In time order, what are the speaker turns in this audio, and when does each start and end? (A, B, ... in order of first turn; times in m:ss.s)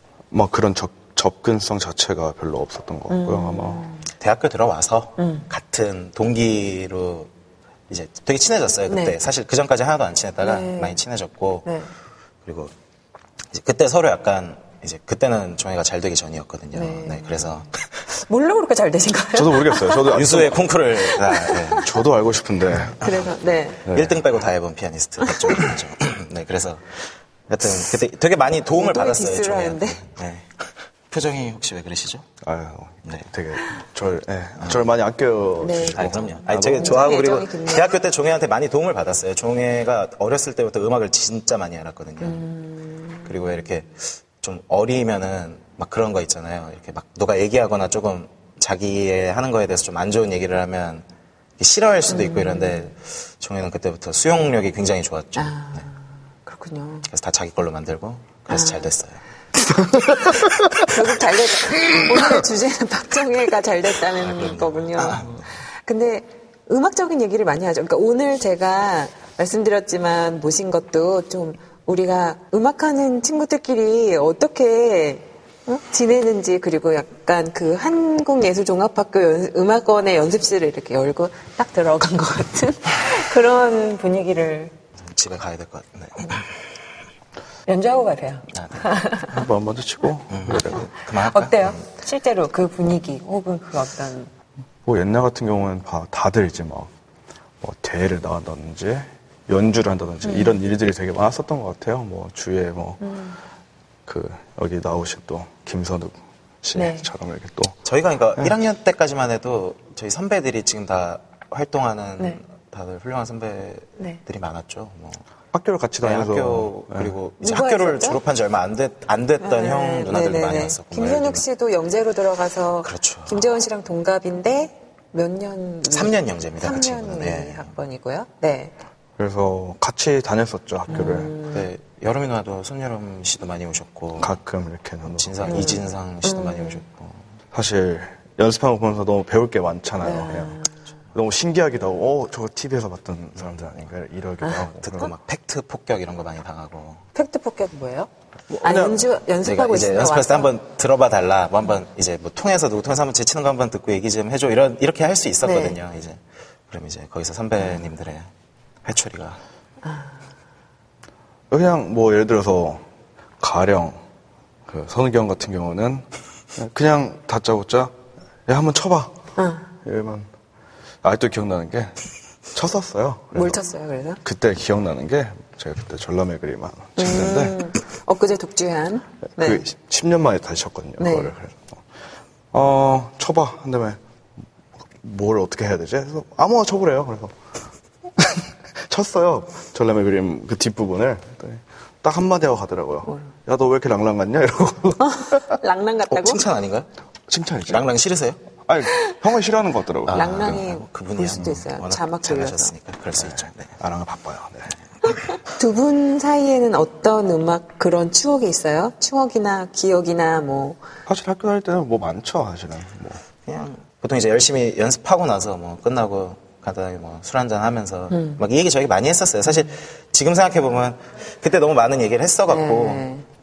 0:00.3-0:03.8 A
0:03.1-0:04.1 B
0:04.2-0:07.3 C
0:05.2-0:05.5 B
0:07.9-0:11.7 C
0:08.9-0:09.2 B
0:10.4-0:11.0 B
0:11.7-0:11.9 B
0:12.4-0:12.7 C
0:13.5-0:17.7 C
0:16.7-0:17.5 B
0:18.1-0:20.2 B
0:19.3-0:20.6 A
0:20.1-0:21.9 C
0:21.1-0:22.0 B
0:21.7-0:23.0 A
0:23.0-0:23.9 B
0:23.8-0:26.9 C
0:23.9-0:24.2 A
0:27.5-0:32.3 C
0:28.7-0:30.0 B
0:32.4-0:37.0 A
0:35.6-0:37.9 B
0:35.9-0:42.4 C
0:42.2-0:43.3 B
0:43.2-0:51.1 C
0:51.6-0:55.5 C
0:52.1-0:52.9 B
0:55.4-0:57.1 B
0:57.1-0:59.2 C
0:58.5-0:58.9 B
0:59.9-1:00.9 A
1:00.0-1:24.7 B
1:04.1-1:05.5 C
1:25.0-1:26.5 C
1:27.7-1:29.4 B
1:28.5-1:28.9 C
1:29.3-1:30.9 A
1:30.3-1:31.8 C
1:31.2-1:34.3 B
1:34.8-1:36.9 A
1:37.6-1:43.0 A
1:40.2-1:40.6 B
1:43.0-1:43.4 B
1:44.1-1:47.8 A
1:46.8-1:47.1 B
1:47.8-1:55.2 C
1:55.5-1:57.1 A
1:56.0-2:01.4 C
1:57.4-1:58.2 B
1:59.4-2:08.8 B
2:02.8-2:03.5 C
2:05.9-2:07.7 C
2:09.2-2:11.4 A
2:10.9-2:11.7 B
2:11.4-2:14.4 C
2:14.2-2:15.8 A
2:15.1-2:17.3 C
2:15.5-2:16.8 B
2:17.5-2:20.6 A
2:20.0-2:20.8 B
2:21.2-2:25.1 A
2:24.7-2:27.1 C
2:27.2-2:30.5 B
2:28.6-2:29.0 A
2:29.4-2:38.3 C
2:35.4-2:35.8 B
2:38.8-2:39.4 C
2:39.8-2:40.1 B
2:41.5-2:42.8 A
2:43.4-2:44.0 A
2:44.7-2:47.9 A
2:48.5-2:49.2 A
2:49.4-2:49.7 B
2:49.8-2:50.3 A
2:51.0-2:52.0 A
2:52.5-2:53.6 A
2:53.3-2:54.2 B
2:54.2-2:57.6 A
2:57.0-2:59.6 B
2:59.4-3:01.8 A
3:01.0-3:01.3 B
3:02.5-3:04.0 A
3:05.0-3:07.3 A
3:08.2-3:15.6 A
3:15.0-3:16.4 B
3:16.1-3:16.9 C
3:17.3-3:17.9 A
3:17.7-3:18.4 C
3:18.6-3:20.6 A
3:20.1-3:23.8 C
3:20.1-3:22.7 B
3:21.4-3:21.6 A
3:23.2-3:24.7 A
3:25.5-3:30.8 B
3:31.1-3:33.2 A
3:33.5-3:43.0 C
3:38.1-3:38.4 B
3:42.5-3:43.2 B